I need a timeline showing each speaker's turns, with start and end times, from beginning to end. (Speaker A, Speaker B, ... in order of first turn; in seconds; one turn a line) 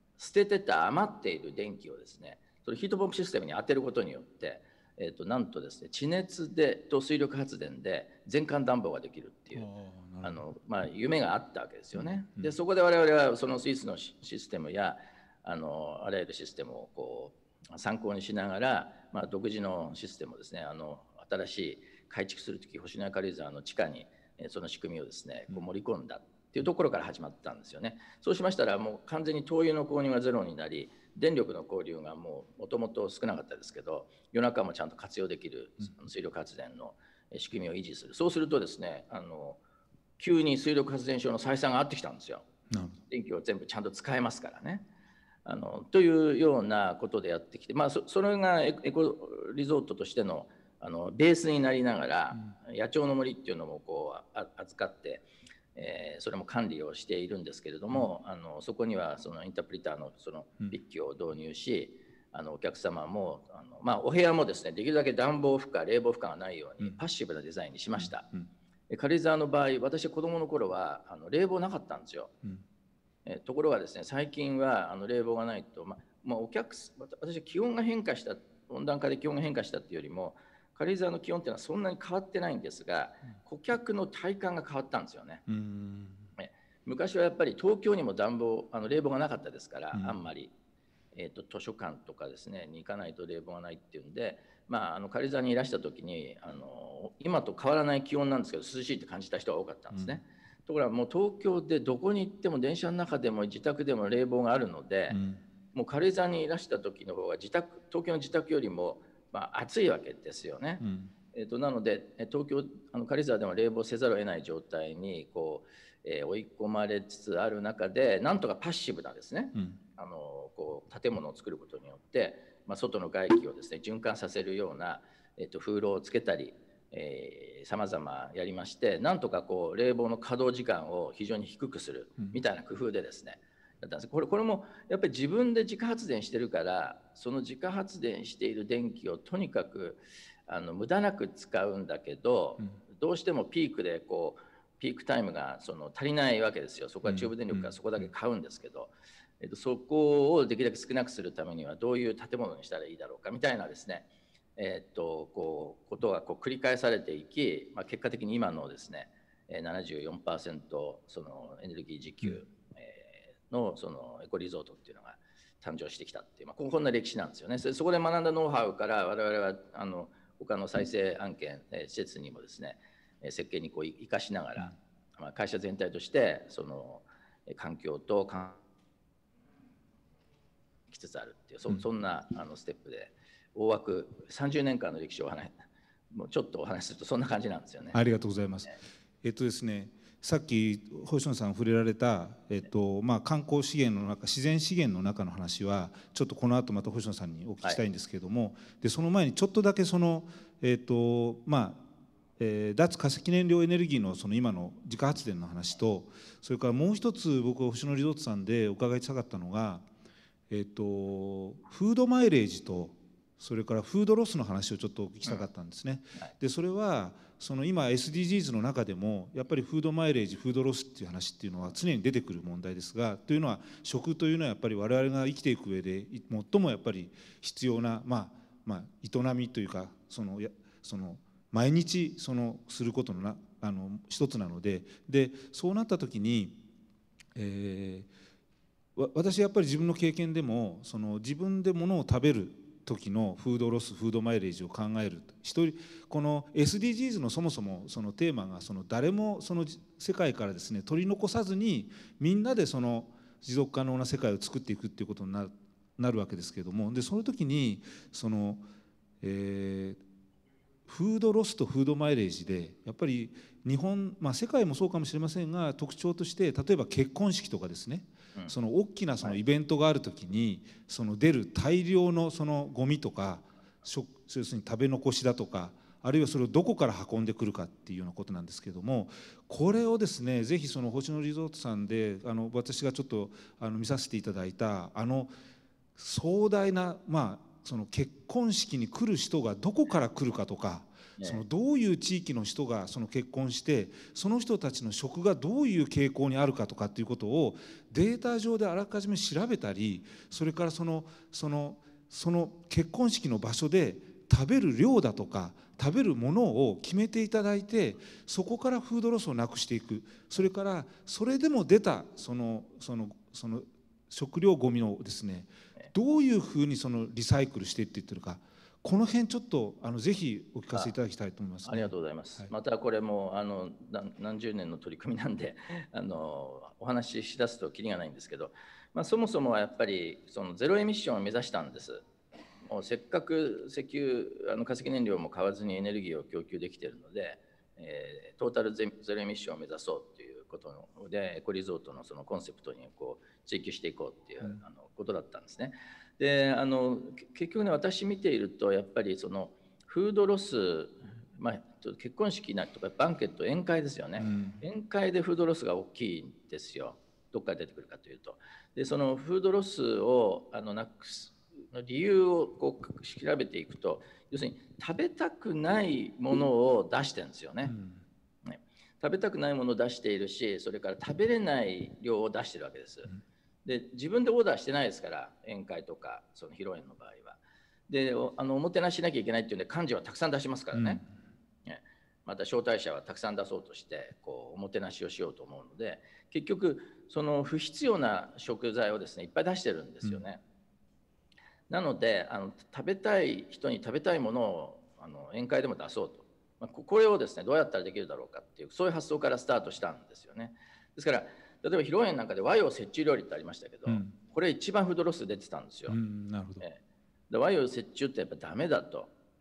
Speaker A: 0.2-9.7
Speaker B: 9.6-10.4
Speaker A: 10.2-39.6
Speaker B: 12.0-12.6
Speaker A: 40.2-42.5
Speaker B: 42.7-43.0
Speaker A: 43.1-44.9
Speaker A: 45.5-68.3
Speaker B: 68.0-68.5
Speaker A: 68.9-72.3
Speaker A: 73.3-85.4
Speaker B: 85.5-86.3
Speaker A: 86.4-90.5
Speaker B: 89.9-90.2
Speaker A: 91.1-105.2
Speaker B: 99.9-100.2
Speaker B: 105.1-105.4
Speaker A: 105.7-110.8
Speaker B: 110.8-111.1
Speaker A: 111.3-178.6
Speaker B: 147.1-148.0
Speaker A: 180.9-188.0
Speaker B: 187.9-201.9
Speaker B: 202.4-209.9
Speaker B: 210.5-236.7
Speaker B: 237.3-238.1
Speaker B: 239.0-258.6
Speaker B: 259.2-260.0
Speaker B: 260.9-285.3
Speaker B: 286.0-322.5
Speaker A: 291.2-291.4
Speaker A: 321.6-332.0
Speaker A: 332.7-367.7
Speaker B: 354.2-354.6
Speaker B: 367.6-368.0
Speaker A: 368.4-373.1
Speaker A: 373.6-381.0
Speaker B: 380.7-381.1
Speaker A: 381.7-390.4
Speaker A: 391.7-406.0
Speaker B: 403.9-404.1
Speaker B: 405.9-406.6
Speaker A: 407.3-409.1